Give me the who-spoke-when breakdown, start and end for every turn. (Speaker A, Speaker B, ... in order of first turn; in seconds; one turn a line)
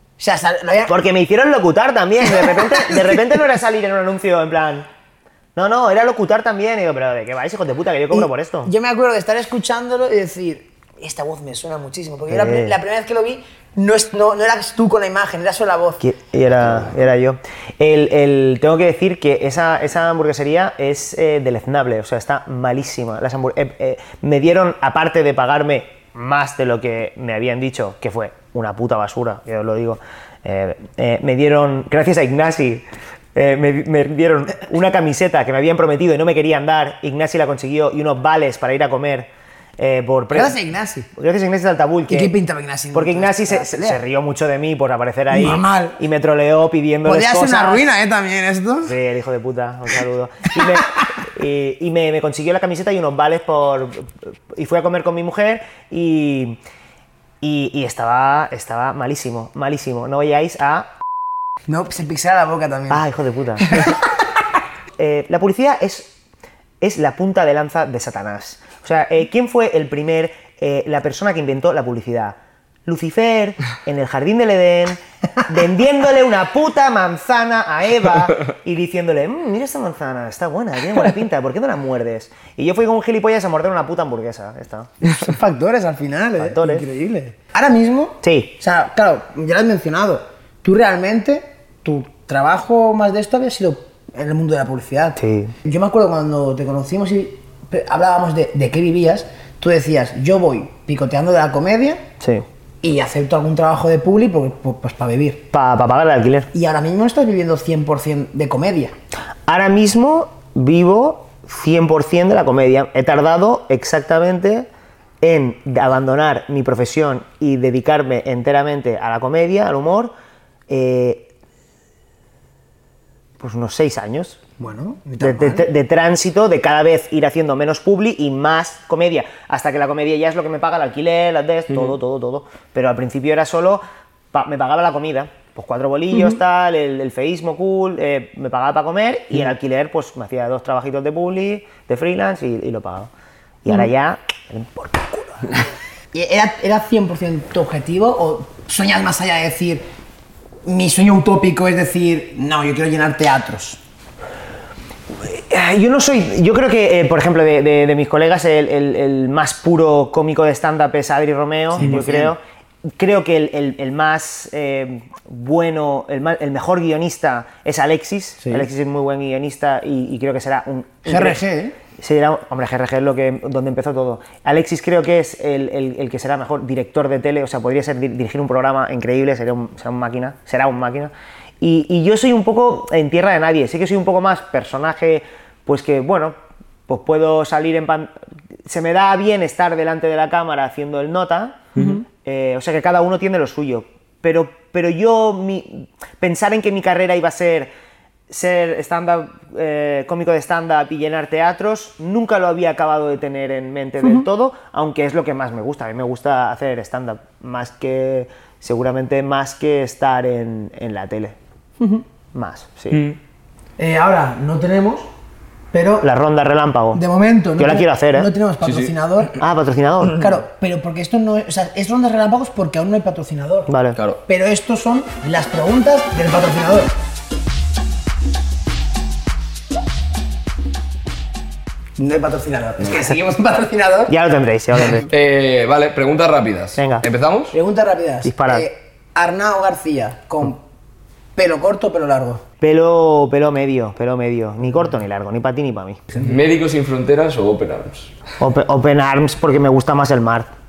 Speaker A: 0.2-0.9
Speaker B: 0.9-4.9
Speaker A: 2.4-3.2
Speaker B: 5.6-8.7
Speaker A: 8.1-16.0
Speaker B: 12.3-12.8
Speaker B: 16.0-32.8
Speaker B: 33.4-40.6
Speaker A: 40.3-41.1
Speaker B: 41.1-42.4
Speaker A: 42.1-44.0
Speaker B: 42.9-47.9
Speaker A: 45.3-46.0
Speaker A: 47.0-48.9
Speaker B: 48.8-56.6
Speaker B: 57.4-60.9
Speaker A: 61.7-63.0
Speaker B: 62.9-63.9
Speaker B: 65.0-66.1
Speaker B: 66.8-84.9
Speaker A: 85.0-102.0
Speaker B: 86.4-86.9
Speaker B: 88.2-88.5
Speaker B: 95.2-95.5
Speaker A: 102.8-105.5
Speaker B: 105.5-106.5
Speaker A: 106.5-109.0
Speaker B: 109.5-114.7
Speaker B: 115.2-120.1
Speaker B: 120.7-121.3
Speaker B: 123.4-124.4
Speaker A: 124.6-125.7
Speaker B: 125.2-133.8
Speaker B: 134.3-143.1
Speaker B: 143.6-145.7
Speaker A: 146.1-149.8
Speaker A: 150.7-153.8
Speaker B: 155.2-162.4
Speaker A: 161.7-162.3
Speaker B: 163.0-171.4
Speaker A: 171.1-171.8
Speaker B: 172.0-186.4
Speaker B: 186.9-188.1
Speaker B: 188.7-197.7
Speaker A: 191.8-192.0
Speaker B: 198.3-211.4
Speaker B: 212.3-213.0
Speaker C: 212.9-213.2
Speaker A: 213.8-215.1
Speaker A: 215.7-216.1
Speaker B: 216.0-217.0
Speaker A: 216.9-219.3
Speaker B: 217.6-218.3
Speaker C: 218.6-218.9
Speaker B: 219.4-220.3
Speaker A: 220.2-223.7
Speaker B: 223.7-224.0
Speaker A: 224.3-226.9
Speaker A: 232.0-234.1
Speaker B: 234.1-235.1
Speaker C: 235.1-237.6
Speaker B: 236.8-237.1
Speaker A: 237.5-240.6
Speaker B: 238.2-238.7
Speaker A: 241.4-242.4
Speaker B: 242.6-246.0
Speaker C: 246.1-248.1
Speaker B: 248.4-250.5